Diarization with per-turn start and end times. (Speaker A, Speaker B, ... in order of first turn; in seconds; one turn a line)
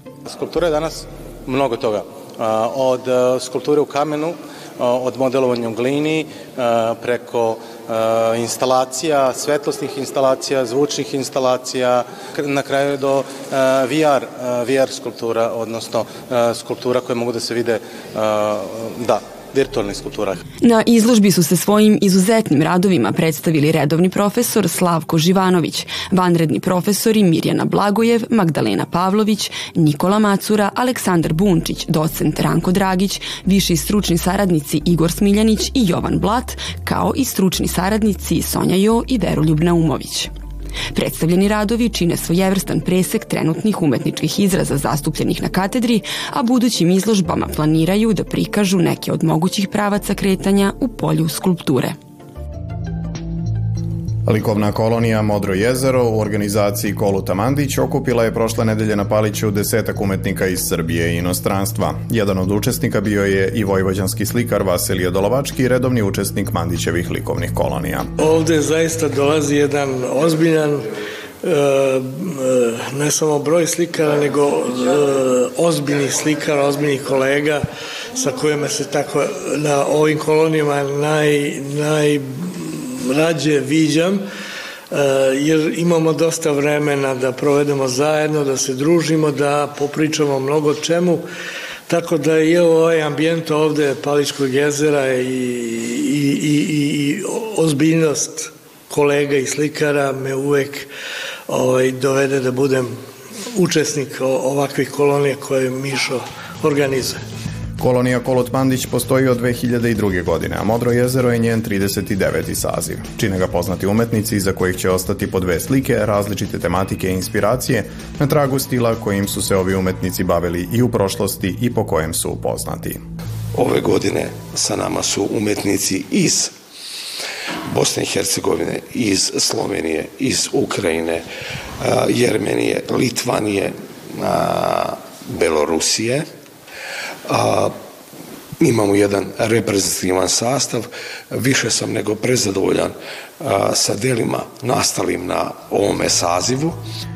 Speaker A: 0.2-20.4
Speaker B: 20.6-40.3
Speaker B: 40.9-51.9
Speaker C: 54.2-68.1
Speaker D: 68.2-70.8
Speaker D: 71.4-77.6
Speaker D: 78.1-84.2
Speaker D: 84.9-91.2
Speaker D: 91.9-100.9
Speaker D: 101.5-102.9
Speaker D: 103.5-107.2
Speaker C: 107.8-123.0
Speaker E: 123.5-126.5
Speaker E: 127.7-131.2
Speaker E: 131.8-136.3
Speaker E: 137.3-137.7
Speaker E: 138.6-146.8